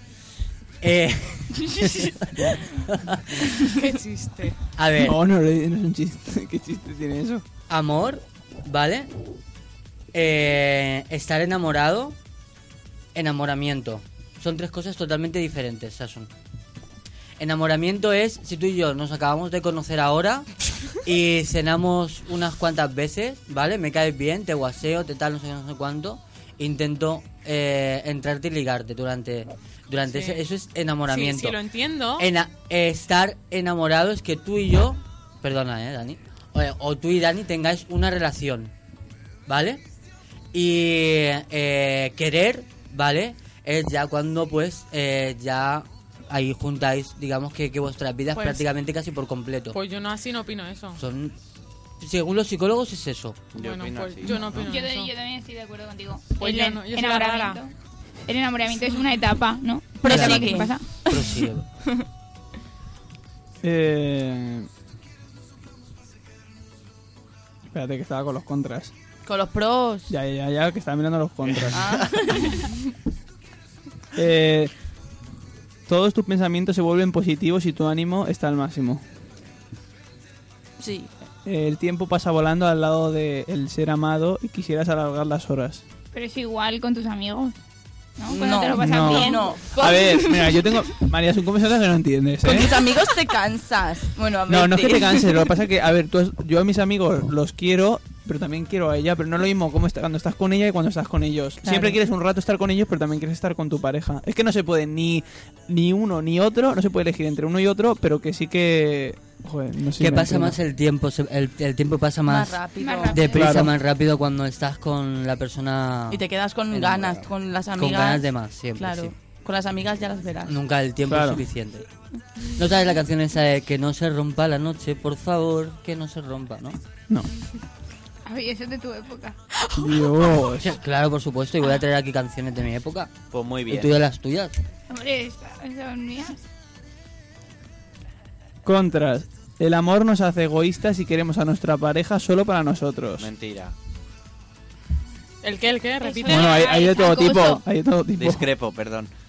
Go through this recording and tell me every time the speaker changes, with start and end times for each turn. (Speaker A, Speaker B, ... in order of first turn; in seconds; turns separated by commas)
Speaker A: 0.8-3.5, Speaker B: 3.6-4.6, Speaker A: 4.8-5.2, Speaker C: 5.0-7.4, Speaker A: 7.7-9.1, Speaker A: 10.1-12.2, Speaker A: 13.1-16.3, Speaker A: 17.4-31.6, Speaker B: 30.1-30.4, Speaker B: 31.1-32.3, Speaker A: 32.2-38.7, Speaker A: 39.5-39.8, Speaker A: 40.5-49.8, Speaker B: 48.3-48.6, Speaker B: 49.7-51.0, Speaker A: 51.0-51.3, Speaker A: 52.0-53.4, Speaker D: 53.5-54.7, Speaker B: 53.5-55.1, Speaker E: 54.3-57.7, Speaker B: 56.4-57.6, Speaker E: 58.2-60.8, Speaker F: 60.0-61.5, Speaker A: 60.0-61.6, Speaker C: 63.6-64.7, Speaker C: 67.7-68.9, Speaker F: 69.2-70.1, Speaker C: 70.1-72.1, Speaker F: 71.7-72.7, Speaker C: 74.1-74.7, Speaker C: 75.9-79.0, Speaker F: 80.8-81.1, Speaker C: 81.5-85.8, Speaker E: 86.1-87.5, Speaker E: 88.2-89.6, Speaker F: 88.3-90.7, Speaker C: 88.8-92.9, Speaker F: 92.4-95.5, Speaker C: 94.5-110.5, Speaker F: 101.6-102.0, Speaker A: 110.0-112.6, Speaker F: 112.3-113.2, Speaker E: 112.8-113.5, Speaker A: 113.1-119.1, Speaker C: 113.3-113.7, Speaker F: 116.1-118.2, Speaker F: 118.8-120.6, Speaker A: 120.4-121.9, Speaker C: 121.1-121.4, Speaker A: 122.5-126.8, Speaker E: 128.2-129.3, Speaker C: 129.7-130.7, Speaker A: 130.5-133.2, Speaker D: 133.3-133.9, Speaker A: 133.7-134.6, Speaker E: 134.9-136.4, Speaker C: 138.6-143.3, Speaker D: 143.2-143.7, Speaker B: 145.4-146.6, Speaker E: 146.0-147.6, Speaker C: 146.3-148.5, Speaker D: 148.1-149.1